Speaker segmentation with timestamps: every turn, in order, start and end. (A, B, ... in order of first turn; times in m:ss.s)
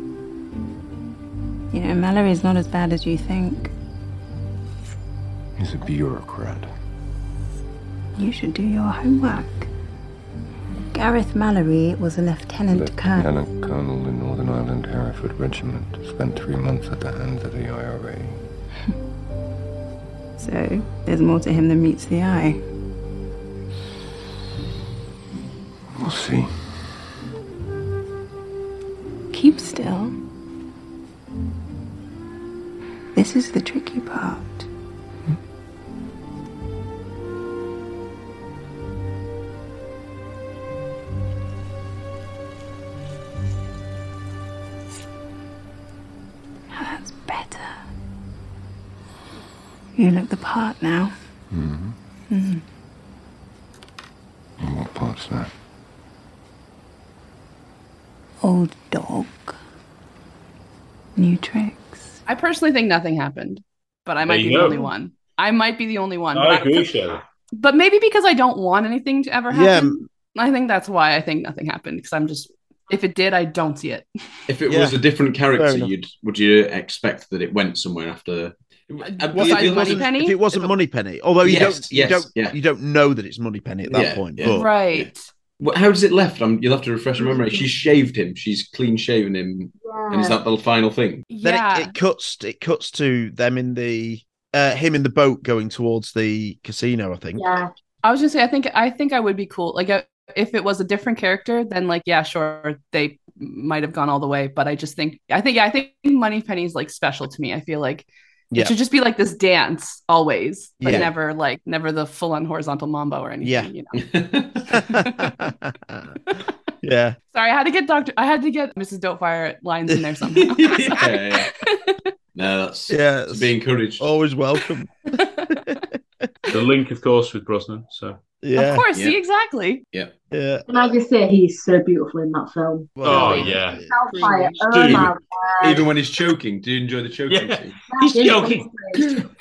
0:01.7-0:03.7 A
0:05.6-0:06.7 B
0:08.2-0:09.7 A
0:10.9-0:13.3 A
0:12.7-0:18.4 B
0:20.4-0:22.6 A
0:26.0-0:26.5 B
0:29.3-0:30.2 A
0:33.2-0:34.7 A
0:46.7-0:47.8 A
0:50.0-0:51.1 A
0:51.5-0:52.0 B
0:52.3-0:52.6 A
0:54.6-0:55.5 B
0:58.4-0:59.6 A
1:01.2-1:02.2 A
1:02.3-1:06.9 C
1:04.2-1:04.8 D
1:06.3-1:07.2 D
1:07.5-1:14.1 C
1:09.5-1:10.0 E
1:14.5-1:20.1 F
1:14.7-1:15.0 E
1:15.6-1:15.9 E
1:19.0-1:20.7 C
1:19.3-1:24.7 E
1:21.4-1:22.6 F
1:23.9-1:31.2 F
1:24.4-1:25.3 C
1:27.2-1:27.7 G
1:29.8-1:30.4 G
1:31.3-1:32.0 C
1:31.4-1:37.4 E
1:37.4-1:37.7 G
1:38.0-1:54.0 C
1:50.8-1:51.1 E
1:53.4-1:53.7 E
1:54.0-1:54.8 F
1:54.7-1:55.3 C
1:54.7-1:56.2 E
1:56.8-1:57.2 E
1:57.3-2:02.1 C
2:00.3-2:01.5 F
2:02.4-2:04.1 F
2:02.9-2:05.8 E
2:05.2-2:05.6 C
2:06.5-2:08.2 D
2:08.4-2:08.9 E
2:08.6-2:09.8 C
2:08.9-2:09.2 F
2:10.3-2:10.6 E
2:10.7-2:15.9 G
2:13.0-2:13.9 E
2:13.0-2:15.1 D
2:15.6-2:17.8 F
2:17.3-2:19.3 D
2:17.9-2:19.2 G